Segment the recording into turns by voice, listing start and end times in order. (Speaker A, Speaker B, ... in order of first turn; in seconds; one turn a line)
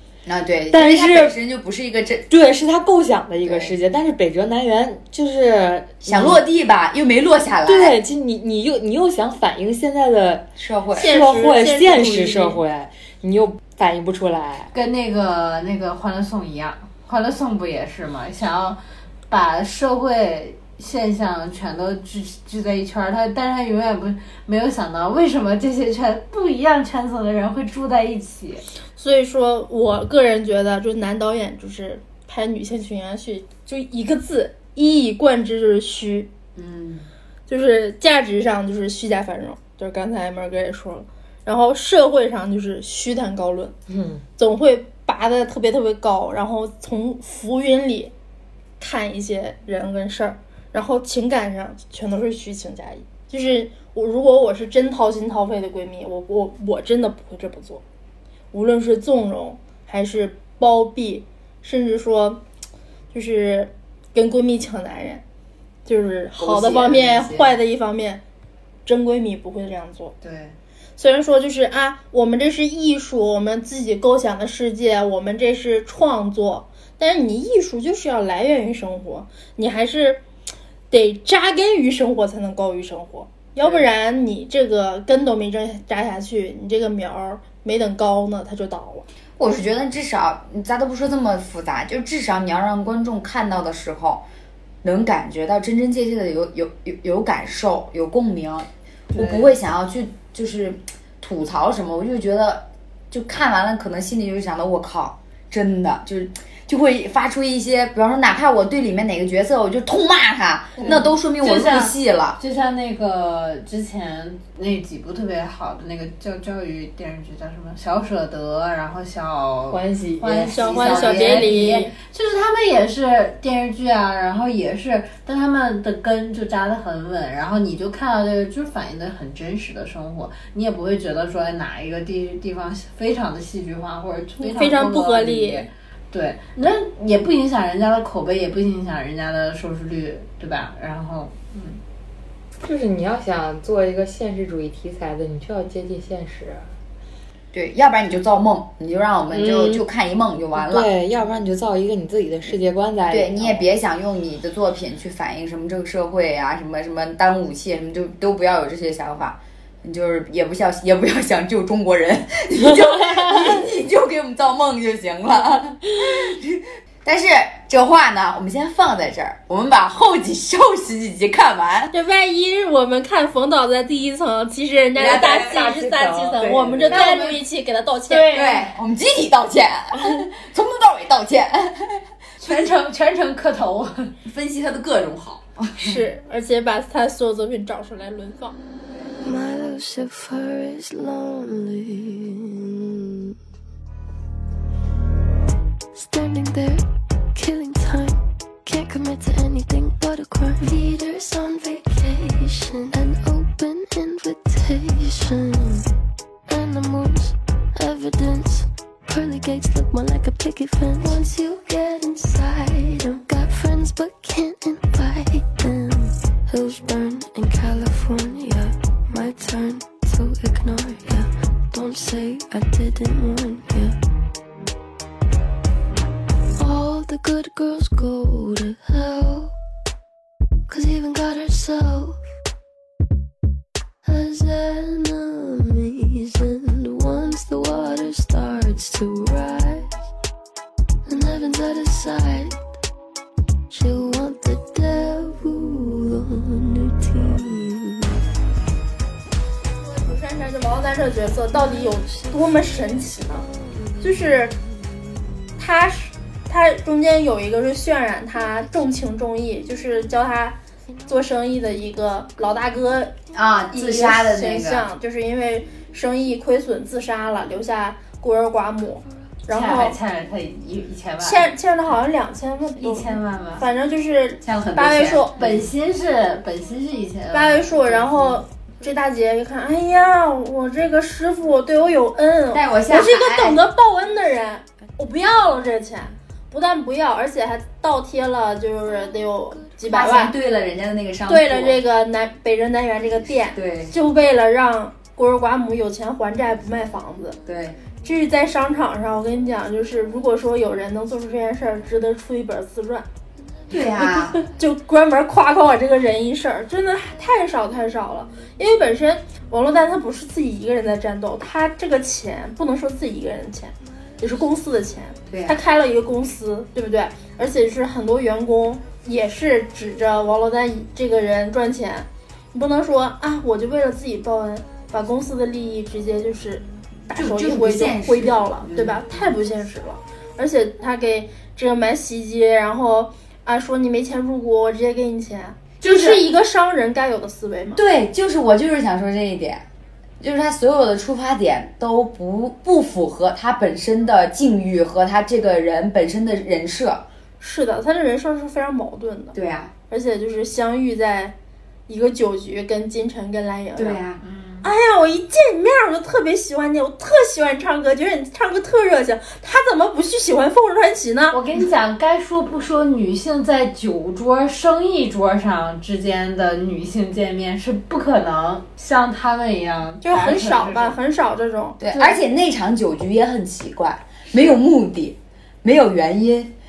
Speaker A: 0.3-2.3
Speaker B: 0.7-1.4
Speaker B: 2.3-6.4
Speaker A: 3.4-3.8
Speaker A: 6.0-8.0
Speaker B: 7.7-10.5
Speaker A: 10.6-11.2
Speaker C: 11.0-12.6
Speaker B: 11.0-14.7
Speaker D: 14.7-28.6
Speaker C: 29.0-36.3
Speaker A: 36.6-37.1
Speaker C: 37.5-43.7
Speaker B: 43.9-44.2
Speaker C: 44.4-48.1
Speaker C: 48.8-57.8
Speaker C: 58.5-62.4
Speaker C: 63.1-65.2
Speaker C: 65.9-68.2
Speaker A: 66.4-67.6
Speaker C: 68.9-70.2
Speaker D: 70.2-70.6
Speaker C: 71.0-80.2
Speaker C: 80.9-89.1
Speaker A: 89.4-94.2
Speaker A: 94.8-112.4
Speaker D: 99.1-99.5
Speaker D: 110.8-141.8
Speaker B: 119.7-121.9
Speaker C: 120.5-121.8
Speaker C: 134.4-135.7
Speaker B: 142.6-146.7
Speaker A: 147.5-150.9
Speaker B: 149.3-149.8
Speaker B: 150.6-153.7
Speaker A: 153.1-171.9
Speaker C: 171.9-178.4
Speaker A: 175.0-175.8
Speaker B: 175.4-176.6
Speaker A: 176.4-177.2
Speaker D: 176.9-177.4
Speaker A: 178.1-182.5
Speaker D: 178.1-178.7
Speaker D: 182.4-184.1
Speaker A: 184.2-186.0
Speaker C: 185.8-188.6
Speaker E: 189.2-193.3
Speaker E: 195.9-205.9
Speaker E: 206.5-224.0
Speaker E: 226.6-229.5
Speaker E: 230.7-232.2
Speaker E: 234.0-239.9
Speaker E: 241.1-242.6
Speaker E: 243.7-248.2
Speaker C: 249.8-253.5
Speaker C: 254.0-254.6
Speaker C: 255.6-263.1
Speaker A: 263.3-264.9
Speaker C: 263.7-270.0
Speaker D: 269.5-271.5
Speaker C: 271.2-275.4
Speaker D: 272.8-273.6
Speaker A: 274.4-275.6
Speaker D: 275.3-278.4
Speaker C: 277.3-290.3
Speaker A: 282.5-283.6
Speaker A: 289.9-291.8
Speaker C: 291.3-297.4
Speaker A: 293.5-293.9
Speaker A: 297.5-297.8
Speaker C: 298.0-303.1
Speaker A: 303.7-304.4
Speaker C: 304.0-337.8
Speaker A: 315.3-315.6
Speaker A: 327.1-329.3
Speaker A: 335.8-336.2
Speaker A: 337.8-339.6
Speaker A: 340.2-347.1
Speaker C: 347.4-349.4
Speaker A: 349.3-349.7
Speaker C: 349.9-351.3
Speaker C: 351.9-354.0
Speaker A: 353.8-354.2
Speaker D: 354.2-354.7
Speaker C: 354.6-361.4
Speaker D: 361.3-371.0
Speaker C: 370.0-371.8
Speaker A: 371.8-376.5